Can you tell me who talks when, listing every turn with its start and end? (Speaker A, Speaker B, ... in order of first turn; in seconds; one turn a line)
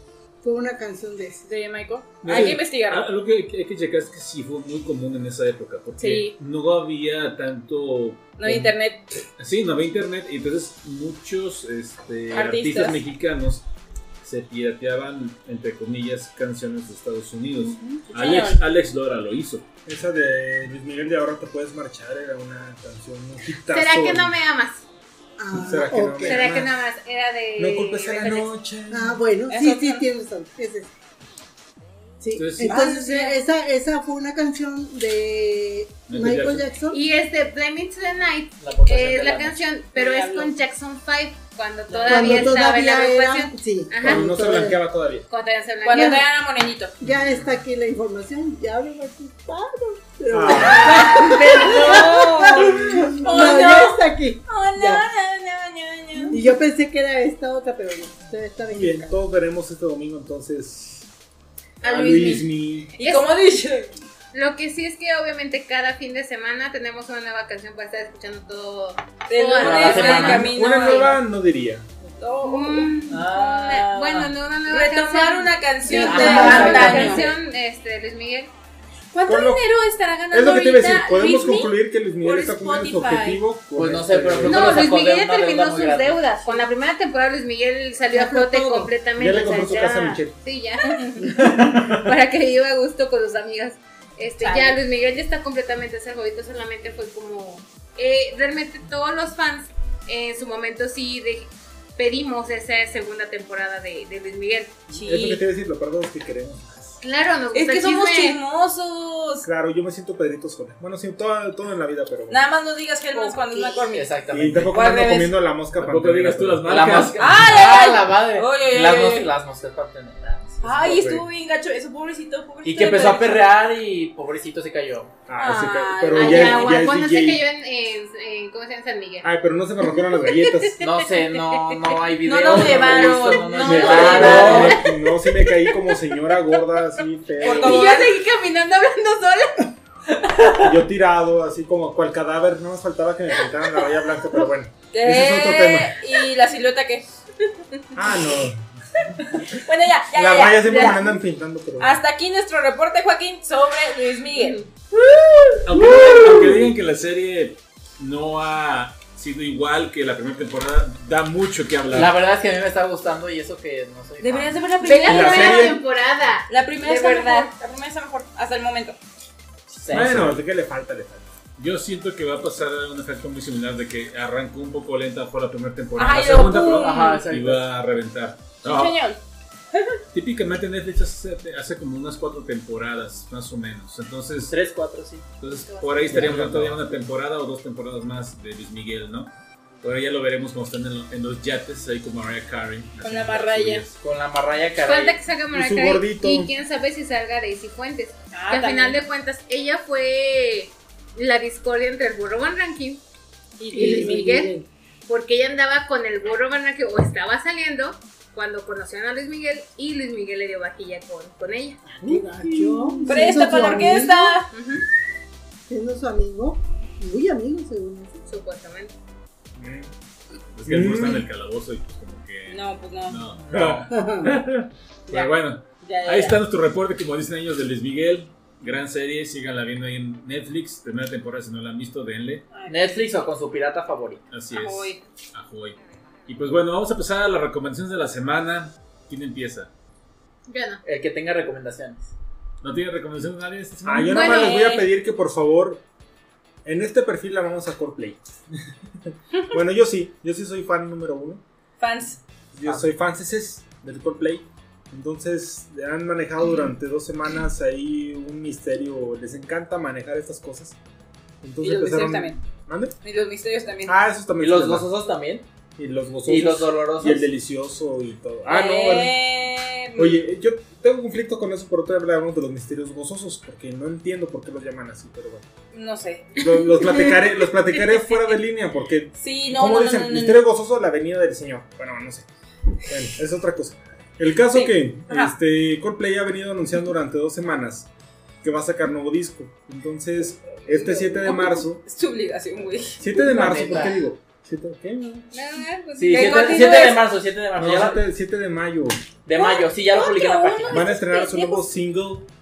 Speaker A: 0.4-1.5
Speaker B: 1.4-3.1
Speaker C: 2.2-8.7
Speaker B: 6.0-6.3
Speaker B: 8.4-9.1
Speaker C: 9.4-13.7
Speaker B: 12.3-13.0
Speaker C: 14.2-19.6
Speaker A: 17.6-18.1
Speaker B: 18.1-18.6
Speaker D: 19.9-24.4
Speaker E: 23.7-24.8
Speaker A: 25.4-26.5
Speaker D: 25.6-26.7
Speaker E: 26.3-28.5
Speaker D: 27.6-29.2
Speaker A: 28.9-30.9
Speaker B: 29.5-30.1
Speaker A: 32.2-37.0
Speaker C: 32.4-32.8
Speaker B: 32.6-33.4
Speaker E: 32.7-33.3
Speaker C: 36.1-36.7
Speaker E: 36.9-44.3
Speaker F: 38.6-39.6
Speaker B: 39.9-40.5
Speaker F: 41.9-42.5
Speaker A: 42.1-44.8
Speaker D: 44.0-45.3
Speaker E: 45.3-46.2
Speaker B: 45.8-46.9
Speaker A: 47.0-55.0
Speaker D: 47.1-47.6
Speaker D: 50.3-51.2
Speaker B: 50.5-56.4
Speaker E: 50.8-52.8
Speaker A: 56.3-59.1
Speaker D: 58.7-61.1
Speaker D: 61.8-62.9
Speaker E: 61.8-62.3
Speaker B: 61.9-63.9
Speaker E: 63.0-63.3
Speaker E: 64.3-71.2
Speaker B: 69.3-71.2
Speaker F: 69.6-70.5
Speaker D: 70.2-71.9
Speaker B: 72.2-77.3
Speaker E: 72.4-78.5
Speaker F: 73.1-73.6
Speaker A: 75.9-77.0
Speaker F: 75.9-77.3
Speaker B: 79.1-83.4
Speaker D: 79.2-79.7
Speaker D: 80.3-84.8
Speaker F: 83.8-86.2
Speaker E: 84.5-104.8
Speaker B: 88.1-88.9
Speaker A: 88.2-88.8
Speaker D: 89.2-90.4
Speaker B: 90.8-91.2
Speaker D: 91.5-92.0
Speaker B: 94.4-94.8
Speaker B: 104.9-105.4
Speaker D: 104.9-107.0
Speaker E: 107.0-108.4
Speaker B: 107.5-109.5
Speaker D: 109.4-112.4
Speaker B: 112.3-114.1
Speaker E: 113.1-113.9
Speaker F: 113.9-114.8
Speaker D: 114.3-116.8
Speaker B: 114.7-115.4
Speaker C: 115.8-117.6
Speaker F: 116.7-121.0
Speaker B: 117.2-119.3
Speaker B: 120.6-123.5
Speaker D: 120.8-121.2
Speaker F: 122.6-125.1
Speaker D: 125.3-127.5
Speaker B: 125.4-126.8
Speaker E: 126.1-129.3
Speaker D: 129.2-130.8
Speaker E: 130.0-131.9
Speaker F: 130.8-134.8
Speaker B: 132.2-134.8
Speaker E: 133.6-135.9
Speaker D: 133.6-138.0
Speaker B: 137.4-138.2
Speaker E: 137.4-139.7
Speaker F: 140.3-140.7
Speaker D: 140.6-146.0
Speaker B: 144.9-147.1
Speaker D: 147.9-148.6
Speaker B: 149.4-151.0
Speaker D: 150.1-152.0
Speaker E: 150.7-151.0
Speaker B: 151.8-154.6
Speaker E: 154.4-154.7
Speaker F: 155.3-156.2
Speaker C: 155.6-162.2
Speaker F: 161.9-164.6
Speaker B: 164.2-165.8
Speaker E: 164.8-167.5
Speaker D: 165.1-165.8
Speaker B: 166.5-169.0
Speaker F: 169.7-170.4
Speaker C: 169.9-170.4
Speaker D: 169.9-171.2
Speaker C: 171.6-179.0
Speaker B: 176.0-177.2
Speaker F: 176.5-177.7
Speaker B: 178.6-179.2
Speaker C: 180.1-184.6
Speaker F: 184.5-185.3
Speaker C: 185.4-194.0
Speaker B: 185.8-186.1
Speaker D: 186.1-187.0
Speaker B: 193.0-193.8
Speaker F: 194.0-195.2
Speaker E: 194.8-203.0
Speaker D: 195.5-196.5
Speaker B: 198.3-199.0
Speaker B: 203.6-204.5
Speaker E: 203.7-204.5
Speaker A: 203.7-204.7
Speaker E: 205.1-211.9
Speaker A: 211.8-214.4
Speaker B: 213.0-214.5
Speaker E: 214.5-214.8
Speaker A: 215.7-218.2
Speaker E: 218.3-218.9
Speaker D: 219.6-219.9
Speaker C: 220.6-232.4
Speaker D: 220.7-221.3
Speaker B: 222.5-223.2
Speaker A: 223.9-224.3
Speaker B: 225.1-226.4
Speaker B: 232.5-232.8
Speaker F: 232.7-234.2
Speaker C: 234.3-239.7
Speaker B: 234.5-235.0
Speaker E: 240.5-240.8
Speaker F: 240.8-242.1
Speaker C: 242.6-244.3
Speaker D: 243.8-245.8
Speaker E: 244.1-244.7
Speaker B: 244.3-244.8
Speaker D: 246.7-248.2
Speaker D: 249.5-251.4
Speaker B: 251.8-252.2
Speaker D: 252.5-260.8
Speaker D: 261.4-262.9
Speaker B: 261.6-262.4
Speaker B: 263.0-264.0
Speaker D: 263.9-264.9
Speaker F: 264.4-265.5
Speaker D: 265.8-269.2
Speaker F: 266.3-267.3
Speaker B: 268.5-270.2
Speaker D: 269.9-275.5
Speaker B: 275.7-276.3
Speaker D: 276.4-282.3
Speaker E: 276.8-277.1
Speaker B: 279.2-280.4
Speaker D: 282.9-287.9
Speaker B: 284.5-285.3
Speaker D: 288.4-291.8
Speaker B: 290.7-293.0
Speaker D: 293.0-295.3
Speaker F: 293.1-294.0
Speaker E: 295.3-297.0
Speaker F: 296.0-298.0
Speaker B: 296.1-297.1
Speaker D: 297.6-299.0
Speaker F: 299.2-300.9
Speaker B: 299.4-301.7
Speaker D: 300.7-302.3